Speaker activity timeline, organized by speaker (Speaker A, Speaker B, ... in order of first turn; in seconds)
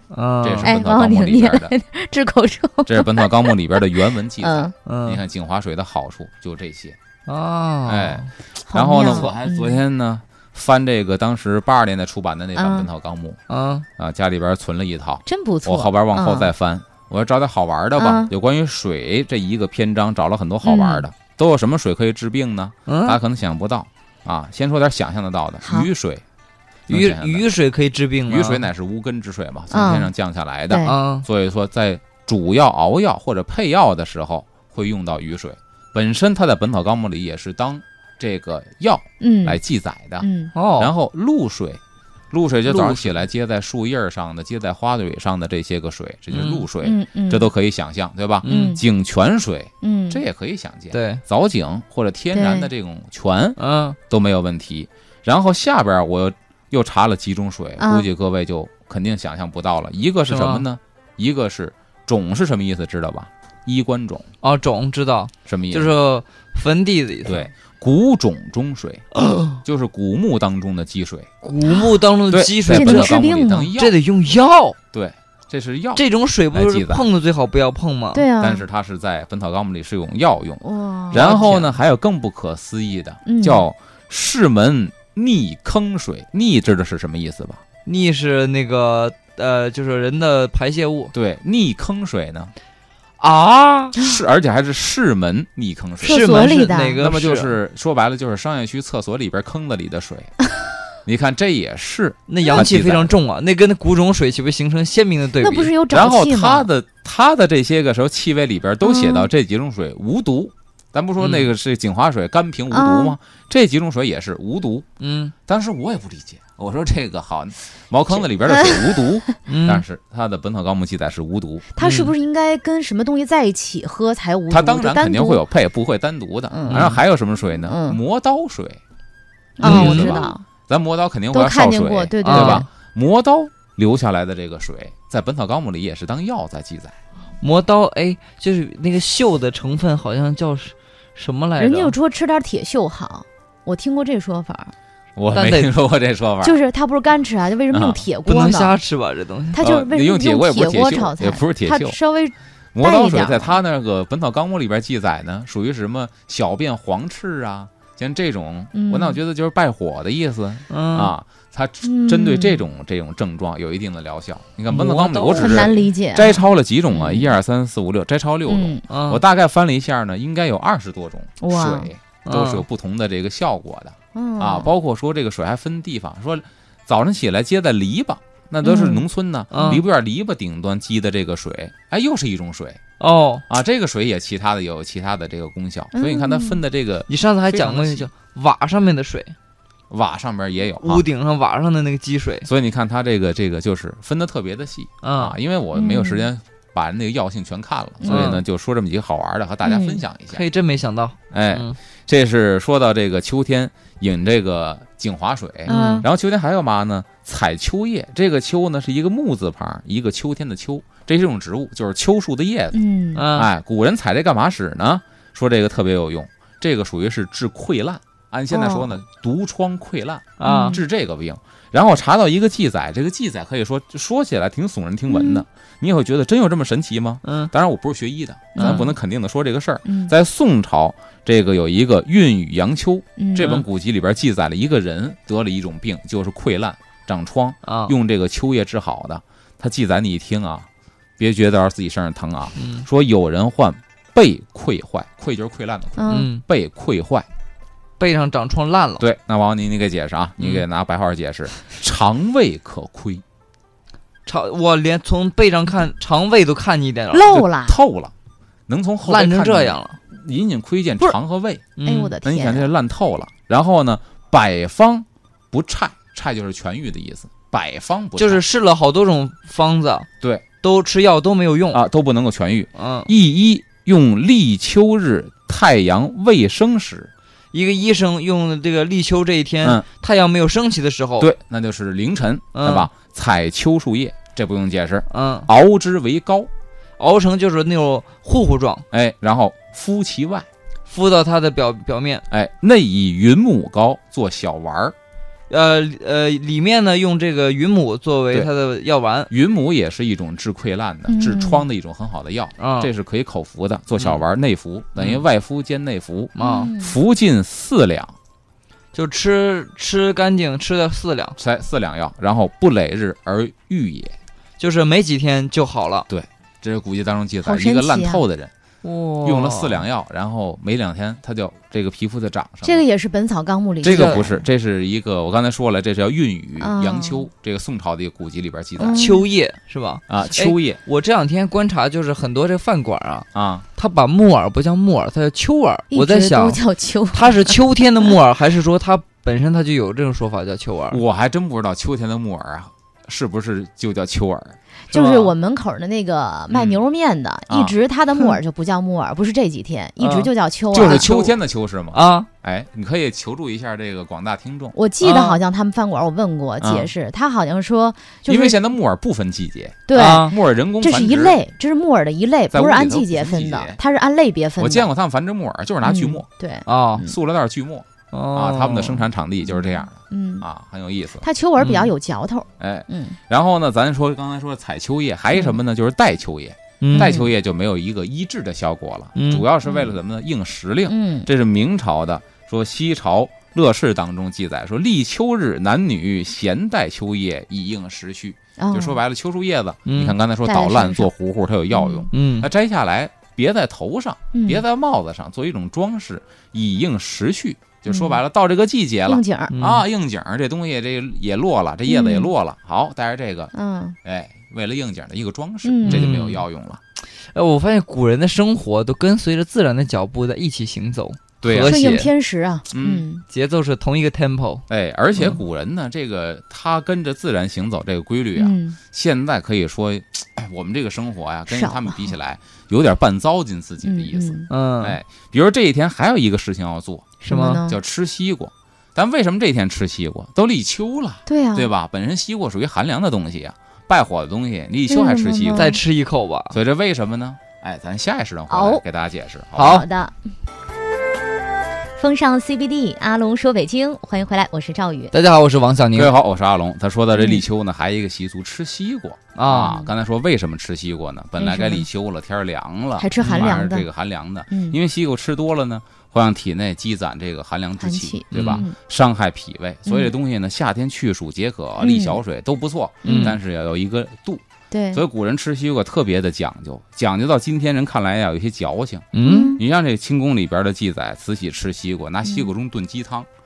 Speaker A: 0.1-0.7, 4.8-5.2, 7.2-8.3, 13.5-13.8, 22.9-23.2, 26.9-28.6, 30.8-31.3, 40.5-40.9, 42.6-43.1, 46.3-46.6, 48.4-48.8, 50.9-51.2, 53.6-54.0, 60.3-60.6, 64.4-67.5, 69.1-69.6, 71.4-73.2, 73.7-74.8, 76.0-78.2, 81.1-81.7, 87.8-91.1, 93.2-94.0, 96.0-97.5, 102.3-105.7, 111.2-111.5, 115.0-115.3, 119.5-119.8, 121.8-122.1, 126.7-127.0, 129.6-130.3, 132.2-132.7, 137.4-141.9, 145.3-145.7, 148.2-149.6, 160.7-161.1, 164.7-165.8, 168.9-169.2, 172.2-172.6, 179.5-179.8, 183.0-183.4, 187.1-189.3, 190.8-192.5, 195.0-195.4, 198.1-198.4, 200.3-201.8, 205.7-206.1, 213.1-213.5, 220.4-220.8, 227.2-227.5, 228.6-228.8, 237.6-237.9, 242.6-242.8, 246.1-246.4, 248.0-249.0, 254.2-257.3, 259.0-260.0, 261.8-262.2, 268.2-270.1, 270.6-271.8, 272.8-273.1, 277.5-281.3, 282.5-282.9, 285.1-285.5, 287.0-288.8, 290.9-292.2, 295.5-299.3, 302.6-302.9, 305.0-305.2, 306.4-306.7, 308.9-311.4, 314.6-316.1, 318.8-319.8, 323.8-324.3, 328.9-336.6, 337.1-341.0, 344.9-345.3, 350.0-351.3, 351.9-352.3, 355.0-355.4, 359.9-360.3, 366.7-367.1, 368.1-369.1, 371.6-371.9, 376.8-377.2, 379.1-379.4, 389.9-390.1, 392.1-392.5, 399.5-399.8, 405.9-406.4, 407.3-412.1, 413.3-414.6, 424.5-425.0, 427.3-427.6, 435.5-436.6, 439.6-439.9, 445.1-446.1, 449.3-449.8, 453.2-453.6, 458.3-458.6, 463.0-463.4, 469.1-469.6
Speaker B: 0.4-1.7, 2.9-7.0, 7.8-13.4, 14.0-26.2, 26.9-27.4, 28.3-64.3, 65.5-65.9, 67.2-69.1, 69.6-71.3, 72.3-73.9, 74.9-77.0, 78.4-87.6, 91.1-92.5, 94.0-100.3, 101.0-103.1, 105.9-114.8, 115.5-121.6, 124.5-128.8, 129.6-136.9, 145.2-146.6, 147.7-148.0, 149.6-152.0, 152.7-182.8, 183.5-188.1, 189.9-191.0, 192.4-200.4, 201.3-212.8, 213.3-240.7, 241.2-247.2, 249.0-253.2, 257.3-258.1, 258.7-261.7, 262.2-268.4, 271.7-277.1, 281.2-286.5, 288.9-290.5, 292.3-294.9, 299.3-308.1, 311.4-314.1, 316.1-318.5, 319.2-322.8, 323.8-329.0, 330.1-330.8, 333.3-333.6, 340.9-344.6, 346.5-346.8, 347.5-347.8, 350.7-354.8, 356.6-356.9, 358.3-361.4, 362.5-363.8, 364.6-366.2, 367.0-371.2, 372.6-403.5, 404.0-406.8, 411.4-411.8, 412.7-413.0, 414.7-435.7, 436.5-439.8, 445.9-473.3
Speaker C: 0.6-4.7, 8.7-9.8, 12.6-12.9, 15.2-16.5, 18.0-18.3, 20.6-21.1, 25.6-25.9, 29.7-30.1, 30.7-30.9, 39.2-39.6, 40.2-40.5, 46.8-47.5, 48.4-48.8, 49.8-50.2, 52.3-52.7, 57.8-58.1, 71.6-71.9, 72.7-73.7, 78.1-78.6, 80.6-81.5, 83.2-83.6, 96.0-97.0, 105.4-106.7, 108.8-109.3, 112.7-113.1, 118.5-119.0, 121.7-125.4, 126.5-126.9, 127.7-128.0, 129.6-130.4, 131.3-132.7, 141.6-144.7, 146.4-148.8, 149.5-153.6, 158.7-159.2, 161.8-162.6, 165.3-167.3, 168.5-168.8, 171.4-171.9, 174.1-174.7, 178.6-179.0, 185.9-186.6, 195.7-196.3, 198.0-198.3, 199.6-200.0, 205.7-206.1, 212.7-213.3, 218.5-218.9, 220.4-220.8, 225.1-225.4, 228.5-228.9, 229.8-230.1, 233.2-233.6, 246.0-246.3, 257.1-257.8, 261.8-262.7, 301.1-301.6, 306.4-306.9, 317.4-318.2, 322.6-324.3, 326.6-327.2, 328.8-329.2, 335.9-337.6, 344.9-351.2, 354.7-358.6, 359.9-364.9, 365.8-367.1, 369.5-370.4, 371.2-373.2, 376.9-377.3, 379.6-379.9, 380.9-381.3, 388.6-389.0, 390.4-391.1, 391.7-392.1, 394.3-394.6, 397.9-398.2, 399.1-399.5, 401.9-402.3, 403.5-404.0, 405.6-406.1, 411.5-413.2, 418.4-418.8, 421.5-422.1, 423.8-424.5, 427.2-427.8, 431.3-431.7, 434.9-435.8, 438.5-438.8, 439.6-440.1, 441.9-445.1, 447.1-447.4, 449.6-449.9, 451.4-451.9, 453.0-453.9, 454.5-454.8, 457.8-458.8, 459.9-460.1, 461.8-462.2, 463.0-463.4, 464.7-465.0, 469.2-469.6